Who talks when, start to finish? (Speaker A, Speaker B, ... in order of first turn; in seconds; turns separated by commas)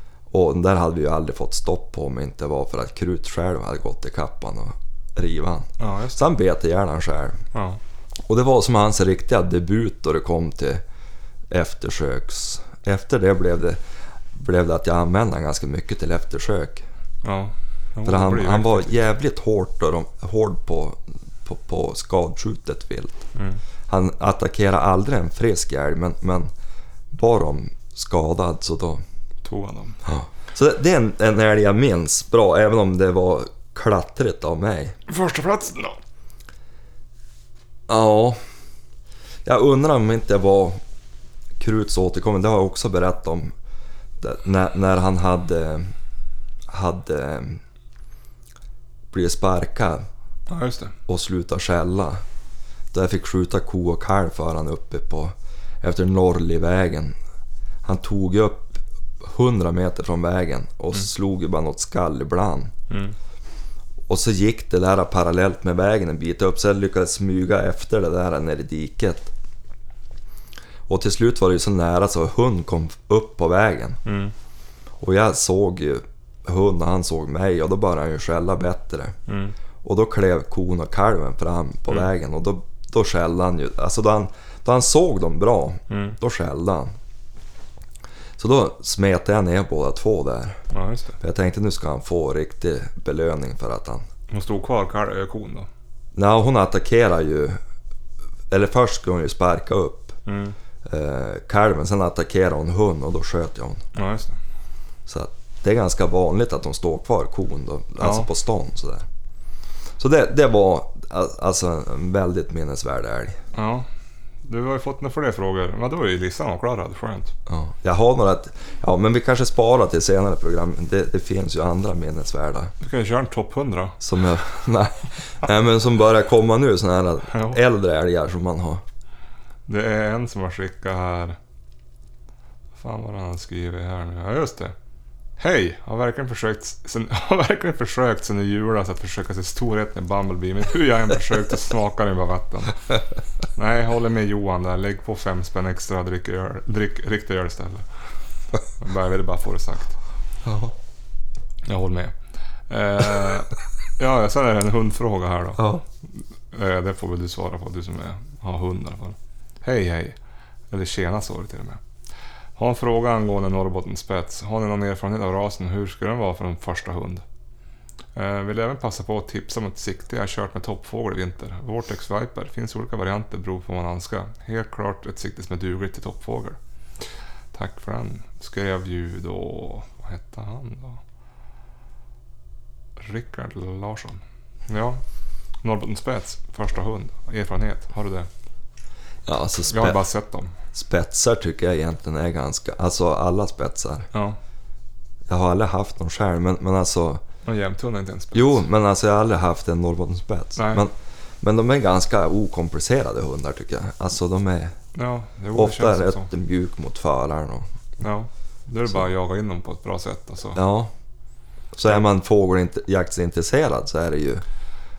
Speaker A: 0.3-7.4, Speaker B: 5.8-6.2, Speaker B: 7.5-7.8, Speaker A: 8.3-10.8, Speaker A: 11.5-13.8, Speaker A: 14.3-16.9, Speaker B: 17.2-19.0, Speaker A: 18.1-23.3, Speaker B: 23.4-23.6, Speaker A: 23.9-26.5, Speaker A: 27.1-29.0, Speaker B: 29.4-30.0, Speaker A: 30.1-35.0, Speaker B: 35.1-36.0, Speaker A: 37.9-38.4, Speaker A: 39.4-40.8, Speaker A: 41.6-43.5, Speaker A: 44.2-45.9, Speaker A: 46.7-47.6, Speaker A: 49.1-50.1, Speaker B: 50.5-50.9, Speaker A: 51.1-52.2, Speaker A: 52.9-57.1, Speaker A: 57.8-62.7, Speaker B: 62.9-63.1, Speaker A: 64.1-69.3, Speaker A: 70.9-74.0, Speaker B: 74.0-74.3, Speaker A: 75.0-79.1, Speaker B: 79.3-79.5, Speaker A: 79.8-86.9, Speaker B: 85.9-86.2, Speaker A: 88.4-90.6, Speaker B: 90.7-91.2, Speaker A: 91.2-94.0, Speaker B: 94.3-95.7, Speaker A: 96.2-97.6, Speaker A: 98.5-100.2, Speaker B: 100.3-100.5, Speaker A: 100.8-103.8, Speaker B: 103.9-104.4, Speaker A: 105.1-109.1, Speaker B: 108.0-108.3, Speaker A: 110.0-113.4, Speaker B: 113.5-113.9, Speaker B: 114.4-117.3, Speaker A: 117.5-122.7, Speaker B: 122.8-124.0, Speaker A: 124.0-128.8, Speaker B: 127.3-127.6, Speaker B: 129.7-131.4, Speaker B: 132.8-134.7, Speaker B: 135.4-142.8, Speaker B: 143.6-147.8, Speaker B: 148.7-149.9, Speaker A: 150.4-150.8, Speaker B: 151.7-152.1, Speaker B: 152.7-155.6, Speaker A: 155.6-155.8, Speaker B: 156.5-160.2, Speaker B: 160.7-161.8, Speaker B: 162.6-167.2, Speaker B: 168.2-176.6, Speaker B: 177.5-181.0, Speaker B: 183.0-185.0, Speaker B: 185.6-188.3, Speaker A: 189.3-190.0, Speaker B: 189.7-190.6, Speaker A: 190.7-194.1, Speaker B: 194.1-194.4, Speaker A: 195.3-197.2, Speaker B: 197.4-198.6, Speaker A: 198.3-204.8, Speaker B: 200.6-200.8, Speaker B: 204.9-206.3, Speaker A: 205.6-207.7, Speaker B: 208.0-210.6, Speaker A: 210.6-210.9, Speaker A: 211.7-214.4